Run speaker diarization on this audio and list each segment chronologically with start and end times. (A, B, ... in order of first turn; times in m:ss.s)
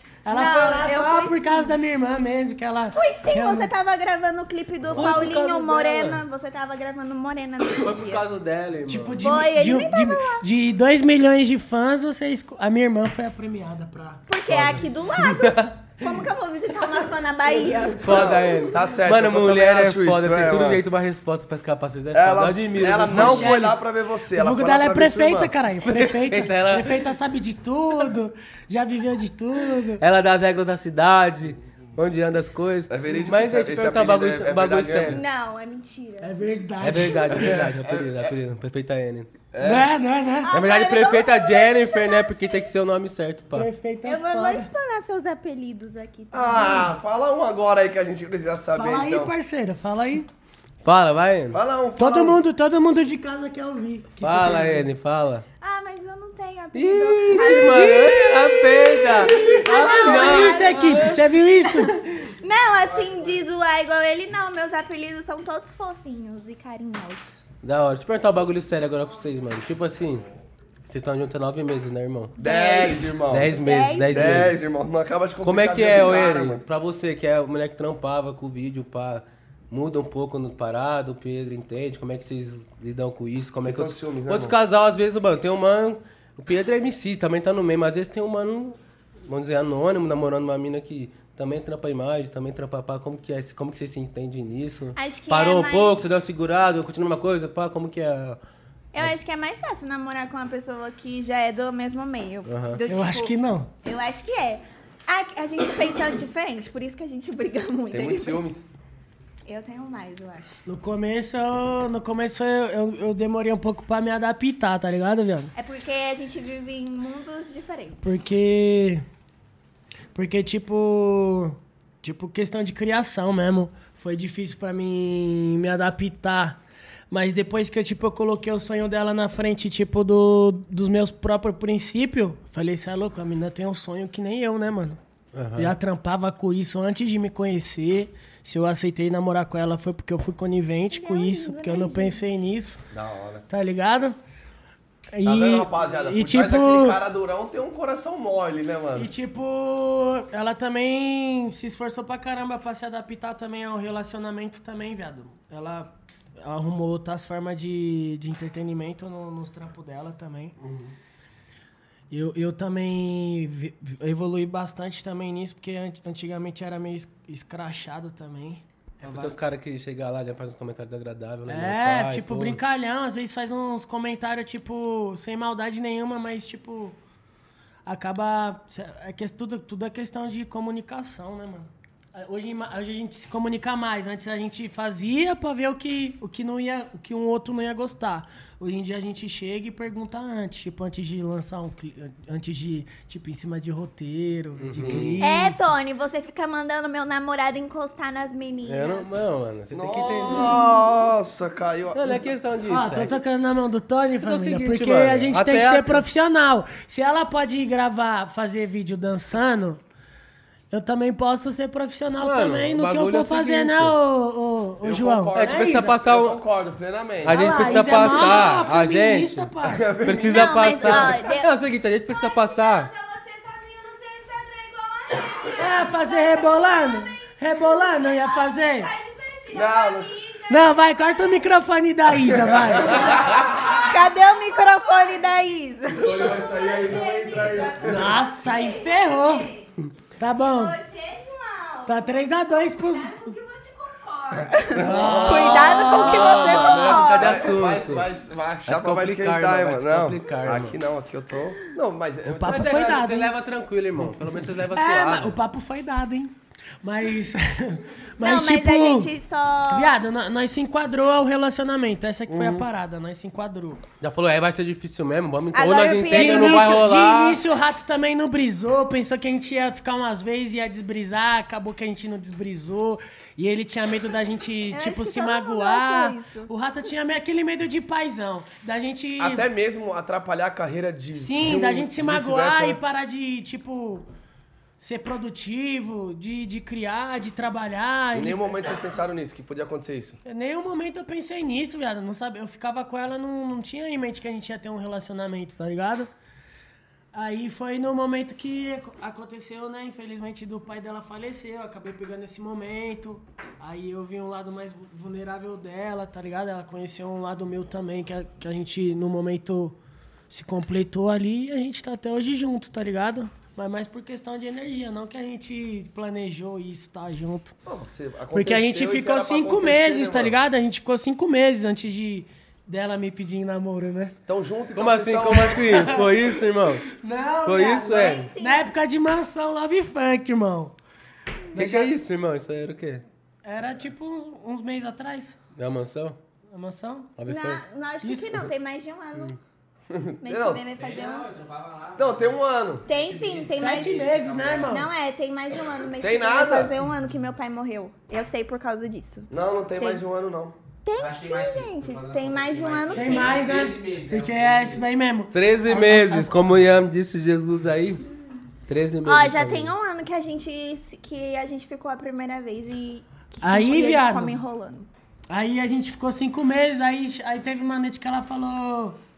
0:00.2-0:03.7 A
0:00.3-0:01.7 B
0:02.9-0:08.2 B
0:04.9-0:06.2 C
0:07.8-0:09.2 C
0:08.9-0:14.2 A
0:09.2-0:10.4 B
0:14.3-0:18.2 B
0:14.5-0:15.8 C
0:18.0-0:23.6 C
0:18.0-0:20.8 D
0:22.1-0:25.5 D
0:23.1-0:23.8 A
0:24.3-0:30.0 A
0:25.8-0:27.0 C
0:30.0-0:35.2 C
0:32.9-0:35.2 D
0:35.1-0:36.3 B
0:36.2-0:37.4 A
0:36.8-0:39.3 C
0:37.3-0:38.3 D
0:39.5-0:39.9 D
0:39.6-0:40.5 A
0:40.4-0:42.7 B
0:40.5-0:43.7 C
0:43.5-0:44.7 A
0:44.0-0:46.9 B
0:46.3-0:49.3 D
0:48.7-0:50.3 A
0:50.8-0:51.6 C
0:51.5-0:52.4 D
0:52.0-0:54.9 A
0:54.2-0:55.4 C
0:55.6-1:01.0 B
0:56.7-1:01.2 C
0:59.4-1:02.0 A
1:01.6-1:07.3 B
1:02.8-1:03.4 E
1:07.6-1:10.2 C
1:10.8-1:12.3 C
1:12.4-1:13.6 D
1:12.4-1:14.4 B
1:13.3-1:14.6 C
1:14.1-1:16.6 D
1:15.4-1:38.4 C
1:23.6-1:24.5 D
1:35.0-1:36.0 B
1:38.9-1:48.4 B
1:42.4-1:42.8 C
1:42.9-1:43.7 A
1:47.9-1:48.6 D
1:49.4-1:50.6 B
1:50.6-1:55.5 A
1:55.5-1:58.0 B
1:58.0-1:59.0 A
2:00.2-2:06.6 A
2:07.1-2:15.0 A
2:15.3-2:15.7 C
2:15.6-2:22.8 A
2:20.9-2:22.4 B
2:22.9-2:23.4 D
2:23.5-2:24.2 A
2:25.1-2:27.0 A
2:25.2-2:29.1 D
2:28.9-2:40.6 A
2:40.6-2:40.9 C
2:42.1-2:49.4 A
2:49.0-2:52.6 C
2:51.5-2:57.0 A
2:57.8-3:15.6 A
3:14.6-3:15.2 C
3:14.7-3:15.2 D
3:15.2-3:19.1 B
3:18.6-3:20.6 C
3:19.7-3:22.3 D
3:21.9-3:23.2 C
3:22.7-3:29.8 A
3:24.2-3:26.0 C
3:30.7-3:35.9 A
3:32.2-3:34.0 C
3:34.8-3:37.9 D
3:35.3-3:36.4 C
3:37.2-3:39.5 C
3:37.3-3:39.9 A
3:37.5-3:38.6 B
3:39.6-3:41.2 D
3:40.0-3:42.9 C
3:40.2-3:41.5 B
3:42.1-3:51.4 B
3:45.6-3:48.9 A
3:49.5-3:50.1 D
3:50.5-3:53.3 A
3:52.4-3:53.4 D
3:52.8-3:59.7 B
3:56.0-3:57.8 C
3:57.8-3:59.5 A
4:00.2-4:00.8 A
4:00.4-4:07.4 B
4:01.8-4:03.3 A
4:04.7-4:13.0 D
4:04.8-4:06.4 A
4:05.9-4:08.1 C
4:08.6-4:10.8 C
4:12.3-4:13.3 A
4:12.4-4:15.4 C
4:14.7-4:19.1 A
4:18.2-4:20.0 B
4:19.7-4:23.8 A
4:22.3-4:22.6 C
4:24.0-4:27.4 C
4:25.5-4:26.9 B
4:26.0-4:39.5 A
4:34.7-4:36.5 B
4:39.2-4:42.8 D
4:41.2-4:44.0 A
4:44.8-4:48.6 A
4:48.1-4:50.2 D
4:50.2-4:56.1 A
4:57.1-5:09.8 A
5:10.3-5:17.6 A
5:17.6-5:20.4 D
5:18.3-5:24.1 A
5:24.2-5:26.0 D
5:24.8-5:26.9 C
5:25.7-5:26.2 A
5:26.9-5:30.7 A
5:27.4-5:28.2 C
5:27.8-5:28.7 B
5:31.5-5:31.9 A
5:31.5-5:33.0 C
5:33.4-5:35.4 A
5:35.5-5:36.2 C
5:36.5-5:37.1 A
5:37.2-5:37.6 C
5:37.2-5:39.4 B
5:38.0-5:38.5 A
5:39.9-5:40.6 D
5:40.2-5:41.3 B
5:40.7-5:44.8 E
5:42.0-5:42.8 D
5:42.9-5:44.0 B
5:43.5-5:44.9 A
5:44.7-5:50.0 B
5:46.0-5:46.7 D
5:49.3-5:50.6 D
5:50.8-5:53.5 B
5:50.9-5:54.9 E
5:52.9-5:56.4 A
5:55.3-5:58.0 C
5:58.7-5:59.7 C
5:59.0-6:04.9 B
6:03.4-6:04.4 A
6:05.3-6:09.0 A